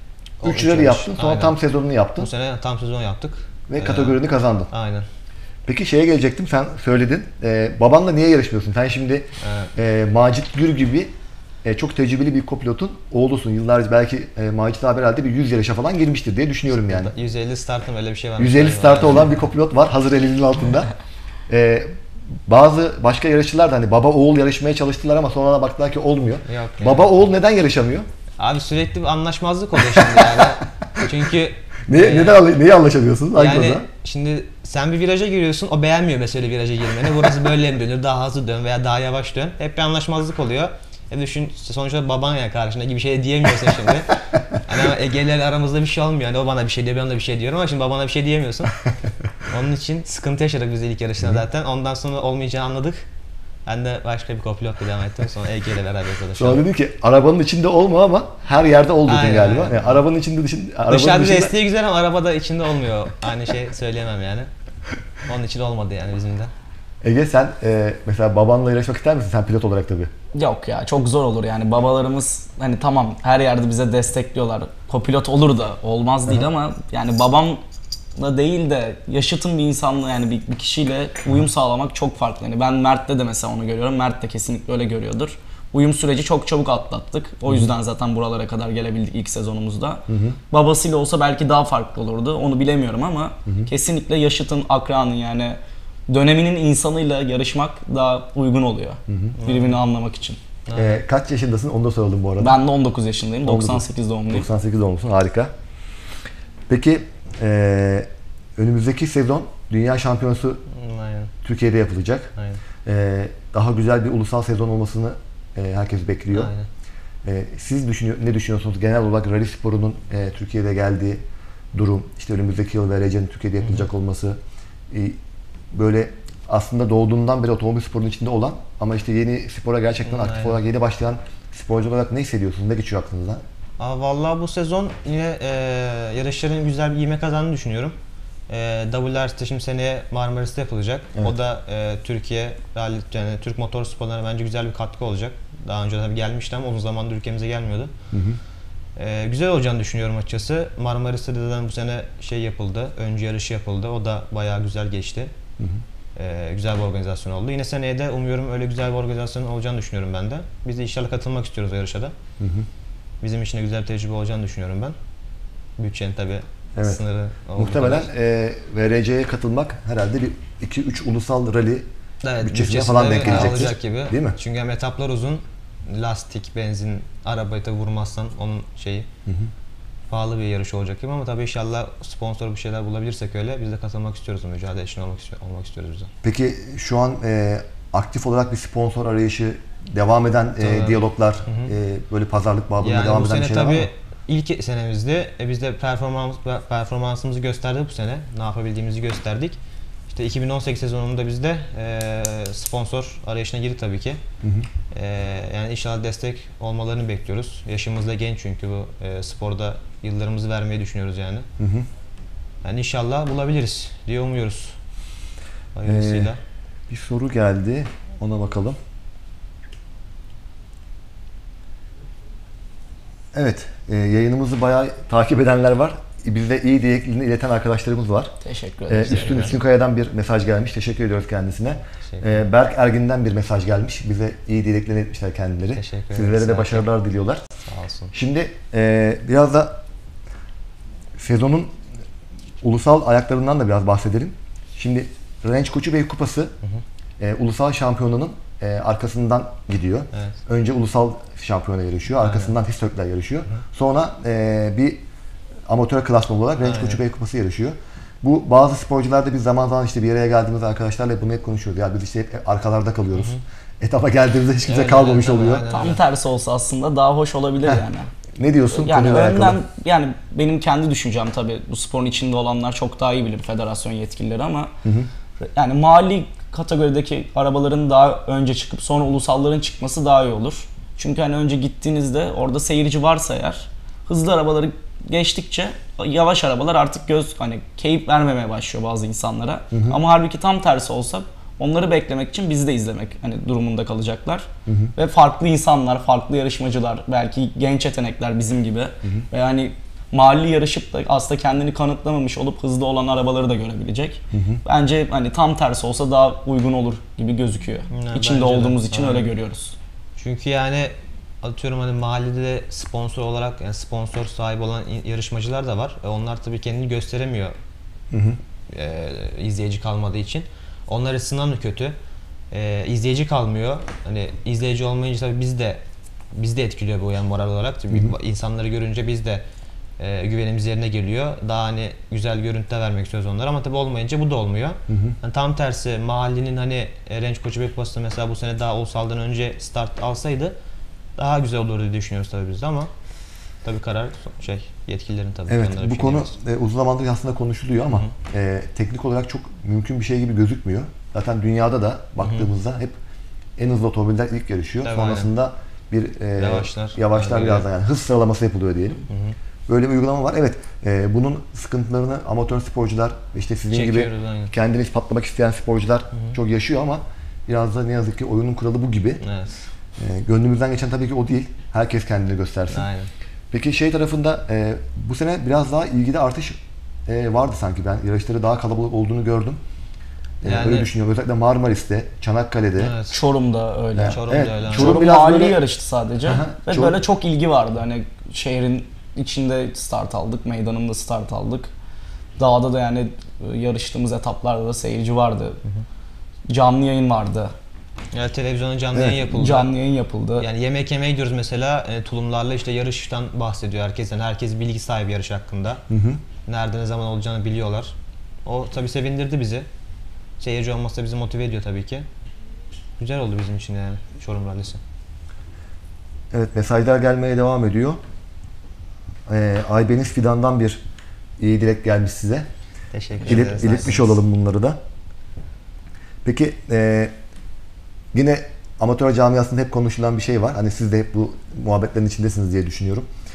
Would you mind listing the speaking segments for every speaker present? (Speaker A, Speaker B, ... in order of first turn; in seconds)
Speaker A: 0.4-1.6, 2.2-4.2, 4.7-5.1, 9.4-9.7, 16.8-19.3, 26.5-27.1, 28.4-32.5, 33.4-48.8, 49.4-53.1, 53.7-56.6, 59.1-60.0, 60.9-64.5, 65.2-66.5, 99.4-99.8, 100.7-101.0, 110.7-111.3, 116.3-116.7, 130.1-130.6, 133.8-137.9, 138.5-147.9, 149.0-155.3, 156.2-162.2, 163.2-165.0, 165.8-168.1, 172.2-179.1, 180.1-186.1, 190.6-191.7, 192.8-199.6, 200.1-204.2, 204.9-211.5, 212.6-214.8, 215.7-216.4, 229.1-229.5, 232.1-232.4, 235.8-236.9, 237.7-238.1, 252.2-252.5, 256.6-257.0, 263.1-263.4, 264.6-266.0, 307.9-309.3, 310.2-317.6, 318.7-322.0, 322.5-325.8, 326.3-329.4, 330.0-340.6, 341.2-342.9, 343.6-346.3, 352.2-352.5, 354.8-355.3, 356.4-357.7, 359.1-359.4, 363.7-364.5, 369.2-369.7, 372.7-373.1, 380.4-380.9, 382.8-383.2, 384.1-385.0, 398.1-399.7, 400.4-405.8, 406.5-407.9, 408.4-409.7, 410.4-412.1, 413.0-414.8, 422.9-424.1
Speaker B: 0.4-2.3, 3.7-4.7, 5.7-11.1, 11.6-17.1, 18.4-20.9, 21.5-21.9, 22.5-28.1, 30.2-31.0, 31.9-33.9, 56.4-61.5, 67.0-70.1, 90.1-90.4, 99.1-99.4, 100.7-102.6, 103.4-105.5, 106.7-110.6, 111.4-112.3, 112.8-116.5, 117.2-121.2, 121.7-124.4, 124.9-125.2, 125.7-133.4, 148.1-148.4, 162.4-162.7, 167.6-171.9, 172.4-174.4, 186.2-193.9, 204.4-204.7, 211.6-211.9, 215.9-216.3, 216.9-218.8, 223.3-228.3, 228.9-237.4, 238.1-239.8, 241.2-241.7, 242.6-246.5, 247.2-255.0, 255.7-265.7, 268.4-269.6, 289.7-290.0, 294.7-294.9, 304.3-304.6, 318.1-318.4, 334.9-335.2, 345.5-352.9, 353.6-359.0, 359.7-369.2, 370.0-372.9, 373.5-379.6, 380.4-383.0, 384.0-385.6, 386.3-387.0, 398.9-399.2, 405.9-406.2, 416.3-418.0, 419.3-420.8, 421.4-422.5, 423.2-424.8, 426.2-427.1, 428.1-433.1
Speaker C: 70.3-77.6, 78.2-100.4, 102.4-104.5, 228.4-229.5, 265.7-268.1, 268.7-274.7, 275.4-309.8, 383.1-391.7, 392.4-395.6, 396.5-397.5, 399.3-400.5